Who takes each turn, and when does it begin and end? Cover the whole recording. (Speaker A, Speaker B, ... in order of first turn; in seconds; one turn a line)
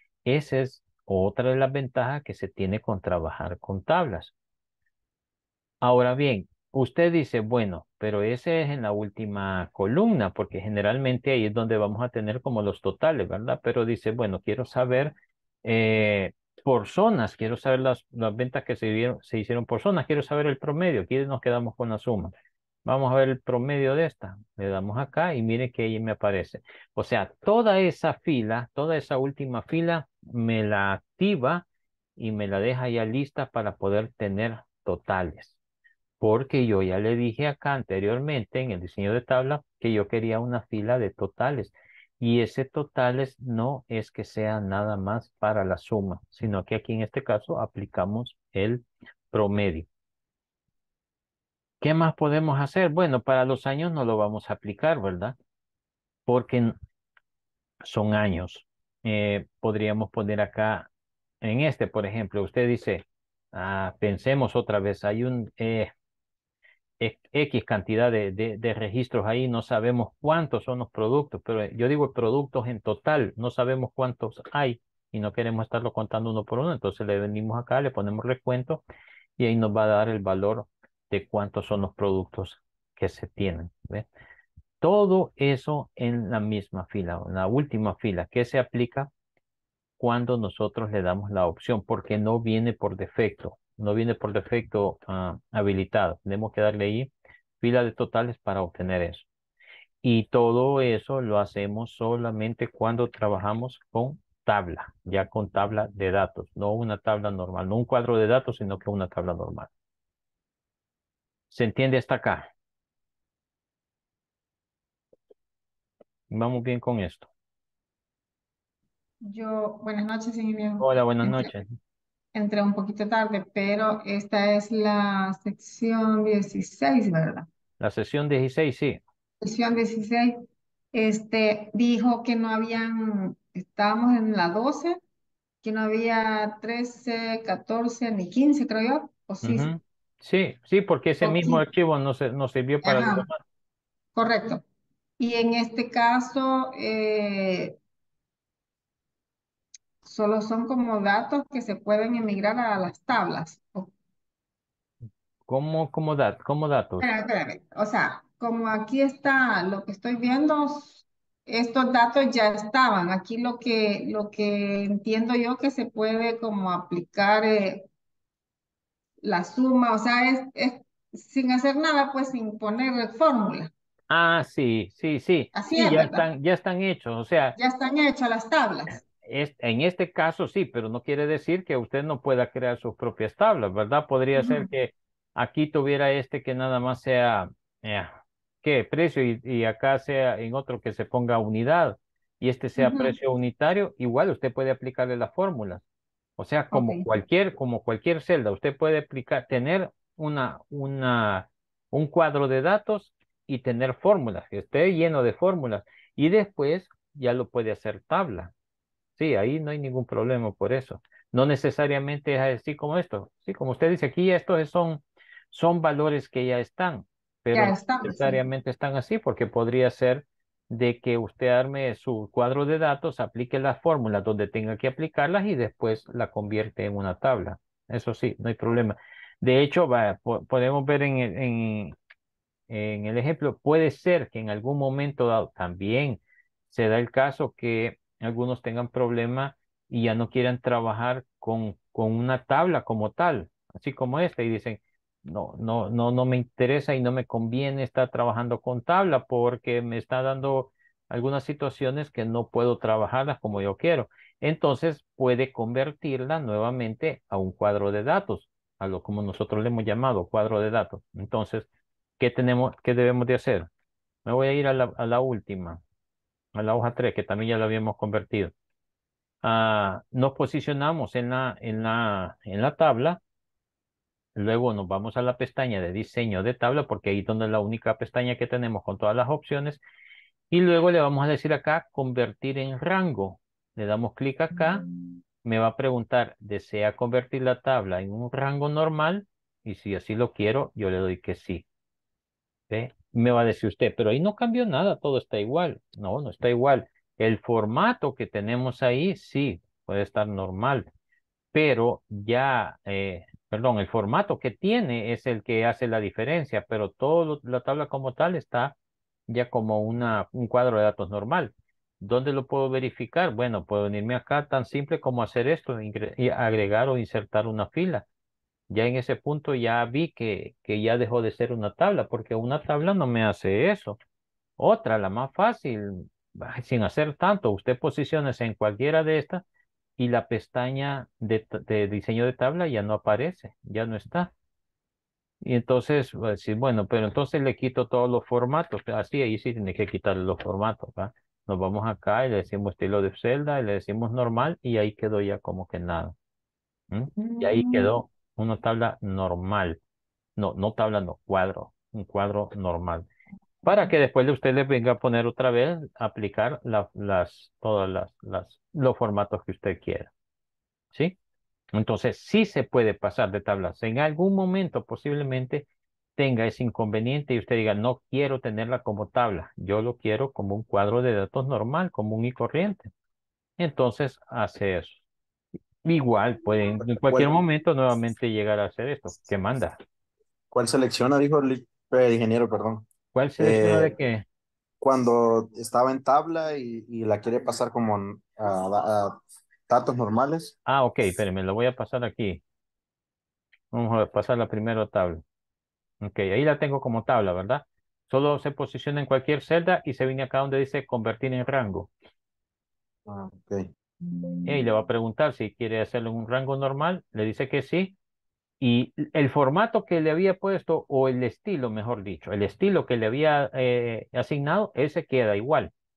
Speaker A: 0.2-4.3
Speaker A: 5.8-22.3
Speaker A: 22.8-31.6
Speaker A: 32.2-35.5
Speaker A: 36.2-49.9
Speaker A: 51.8-55.4
Speaker A: 56.3-56.8
Speaker A: 57.8-60.9
Speaker A: 61.4-65.9
Speaker A: 67.0-78.8
Speaker A: 79.4-84.0
Speaker A: 84.8-89.1
Speaker A: 90.0-97.1
Speaker A: 97.6-99.2
Speaker A: 100.0-109.7
Speaker A: 111.5-112.5
Speaker A: 116.3-117.3
Speaker B: 119.2-121.5
Speaker A: 120.8-121.7
Speaker B: 122.3-127.5
Speaker A: 127.8-129.0
Speaker B: 129.4-135.0
Speaker B: 135.6-139.7
Speaker A: 139.4-143.4
Speaker B: 141.2-141.6
Speaker B: 142.8-143.2
Speaker B: 144.1-144.6
Speaker B: 145.2-147.8
Speaker B: 150.0-153.9
Speaker A: 155.5-157.1
Speaker B: 157.0-167.9
Speaker B: 169.2-173.7
Speaker A: 174.1-177.6
Speaker B: 175.5-176.2
Speaker B: 177.6-179.0
Speaker A: 179.2-195.8
Speaker B: 184.3-184.7
Speaker B: 192.8-193.2
Speaker A: 196.4-208.5
Speaker B: 196.7-197.1
Speaker A: 209.2-231.9
Speaker B: 217.5-218.4
Speaker A: 232.7-261.7
Speaker A: 262.2-263.7
Speaker A: 264.2-265.8
Speaker A: 266.5-268.5
Speaker A: 269.4-273.2
Speaker A: 274.4-279.8
Speaker A: 280.5-284.9
Speaker A: 285.4-291.6
Speaker A: 292.7-300.9
Speaker A: 301.5-308.7
Speaker A: 309.3-318.0
Speaker A: 318.7-324.0
Speaker A: 324.6-329.4
Speaker A: 330.0-334.3
Speaker A: 335.4-346.1
Speaker A: 346.9-349.8
Speaker B: 347.2-347.9
Speaker A: 350.4-353.1
Speaker A: 353.6-360.1
Speaker A: 361.7-372.9
Speaker A: 373.6-375.0
Speaker A: 375.8-379.8
Speaker C: 377.0-377.3
Speaker C: 380.5-382.9
Speaker A: 383.1-384.2
Speaker C: 383.4-383.9
Speaker C: 384.8-390.5
Speaker A: 390.6-392.4
Speaker A: 393.7-395.2
Speaker A: 396.0-401.9
Speaker C: 403.1-403.6
Speaker A: 404.4-407.9
Speaker A: 408.6-415.7